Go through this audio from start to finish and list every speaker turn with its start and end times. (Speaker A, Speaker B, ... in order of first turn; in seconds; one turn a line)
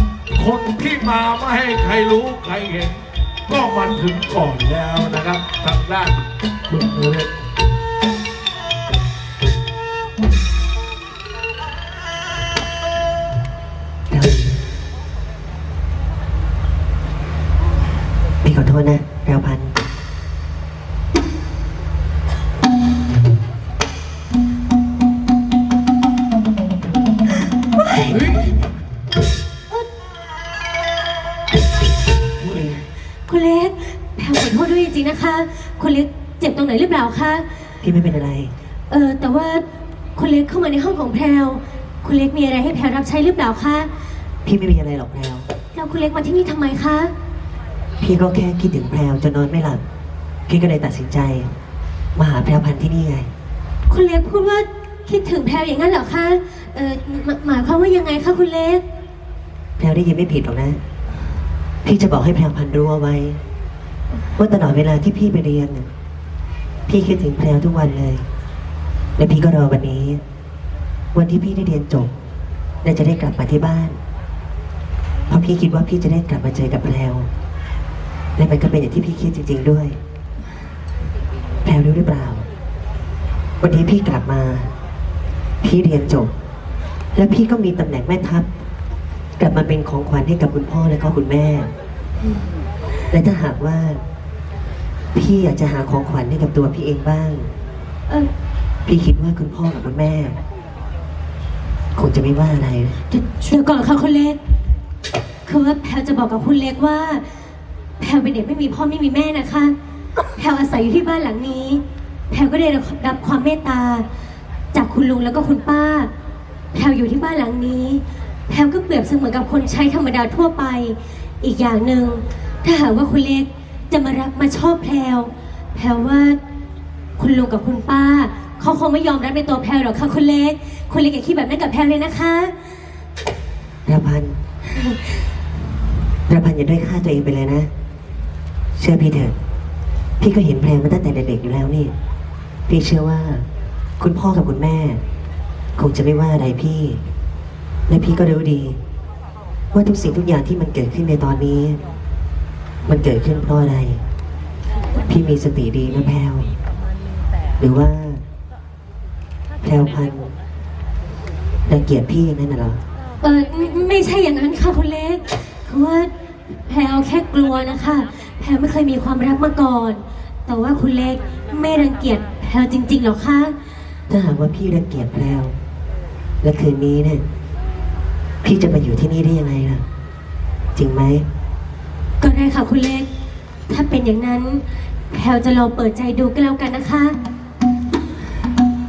Speaker A: 0.3-7.3
Speaker B: 14.1-14.5
Speaker B: 18.4-19.8
Speaker A: 28.1-28.5
Speaker C: 33.3-37.5
Speaker B: 37.8-38.5
Speaker C: 38.9-39.6
Speaker C: 40.2-43.9
Speaker B: 44.5-45.5
Speaker C: 45.7-47.1
Speaker B: 48.0-49.8
Speaker B: 50.5-51.5
Speaker B: 52.2-53.3
Speaker C: 53.9-58.8
Speaker B: 59.8-60.8
Speaker B: 61.8-63.4
Speaker B: 64.4-65.9
Speaker B: 66.9-68.2
Speaker B: 69.2-70.2
Speaker B: 71.1-72.1
Speaker B: 72.8-74.0
Speaker B: 75.3-77.3
Speaker B: 78.4-80.0
Speaker B: 81.7-82.4
Speaker B: 83.6-84.7
Speaker B: 85.6-86.3
Speaker B: 87.2-88.5
Speaker B: 89.4-91.7
Speaker B: 93.1-94.0
Speaker B: 95.2-97.5
Speaker B: 98.9-100.4
Speaker B: 102.0-103.0
Speaker C: 103.1-104.4
Speaker C: 105.5-107.2
Speaker C: 108.0-109.7
Speaker C: 110.4-114.0
Speaker C: 114.7-116.1
Speaker C: 116.7-126.4
Speaker C: 127.2-132.5
Speaker B: 133.9-134.4
Speaker B: 136.3-137.7
Speaker B: 138.8-139.3
Speaker B: 140.2-141.9
Speaker B: 142.7-143.5
Speaker B: 144.0-145.0
Speaker B: 145.8-147.0
Speaker B: 147.9-148.8
Speaker B: 149.7-151.8
Speaker B: 152.9-154.0
Speaker B: 155.1-156.5
Speaker B: 157.6-158.2
Speaker B: 159.6-160.3
Speaker B: 161.7-162.8
Speaker C: 163.2-173.5
Speaker B: 174.1-175.5
Speaker B: 176.4-177.2
Speaker B: 178.4-179.8
Speaker B: 180.8-181.2
Speaker C: 182.2-183.1
Speaker C: 183.7-187.2